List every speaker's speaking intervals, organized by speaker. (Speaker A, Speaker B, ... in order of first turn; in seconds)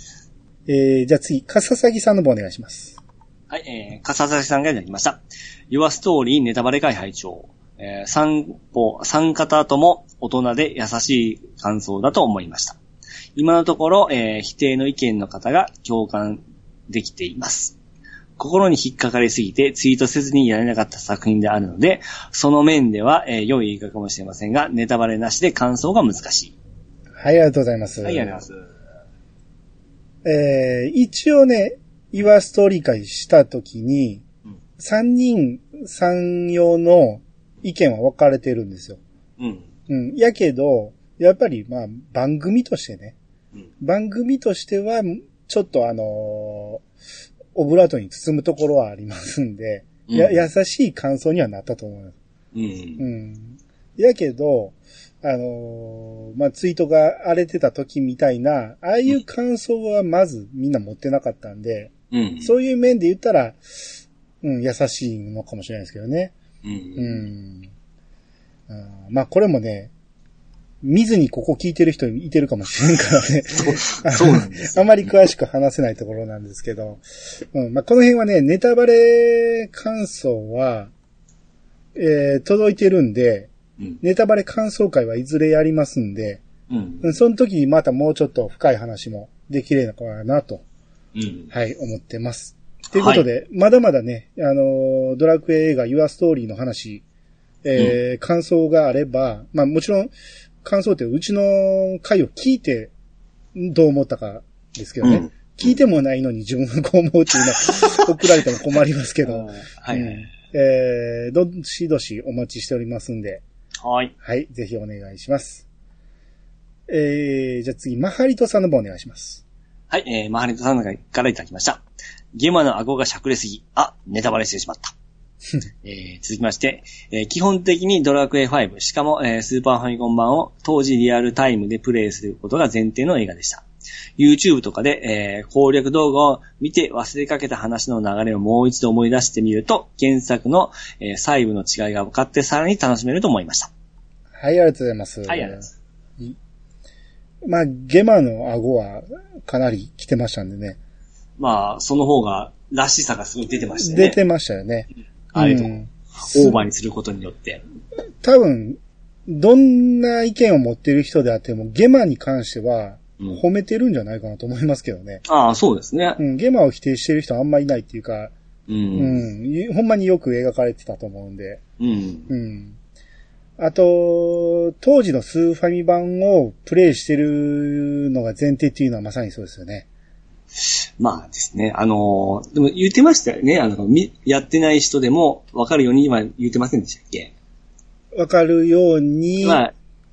Speaker A: 0.7-3.0, 27.1-28.4, 30.2-34.2, 34.8-39.0, 39.9-43.2, 43.8-46.8, 47.5-52.2, 53.0-63.6, 64.4-66.3, 67.0-67.7, 68.7-69.9, 70.8-80.9, 82.0-83.5, 84.0-86.4, 87.0-90.6, 91.5-97.0, 97.6-100.1, 100.6-102.9, 103.5-113.4, 114.2-115.7, 116.9-119.4, 144.3-145.7, 147.4-150.8, 153.8-156.6, 158.2-165.2, 166.2-168.3, 168.9-171.6, 172.3-172.8, 173.6-179.9, 188.1-189.6
Speaker B: 3.5-12.8, 13.4-17.8, 18.4-26.5, 28.0-28.6, 39.4-39.7, 50.1-50.4, 52.5-53.0, 62.1-62.5, 66.6-67.2, 73.6-75.1, 86.7-87.1, 91.2-91.5, 92.9-93.3, 105.0-105.3, 109.2-110.3, 113.8-114.1, 119.9-121.8, 122.3-124.9, 125.8-133.7, 134.2-143.7, 145.3-145.7, 151.4-154.2, 155.3-157.6, 165.3-166.2, 168.7-169.2, 171.8-172.3, 180.6-187.3, 189.4-189.7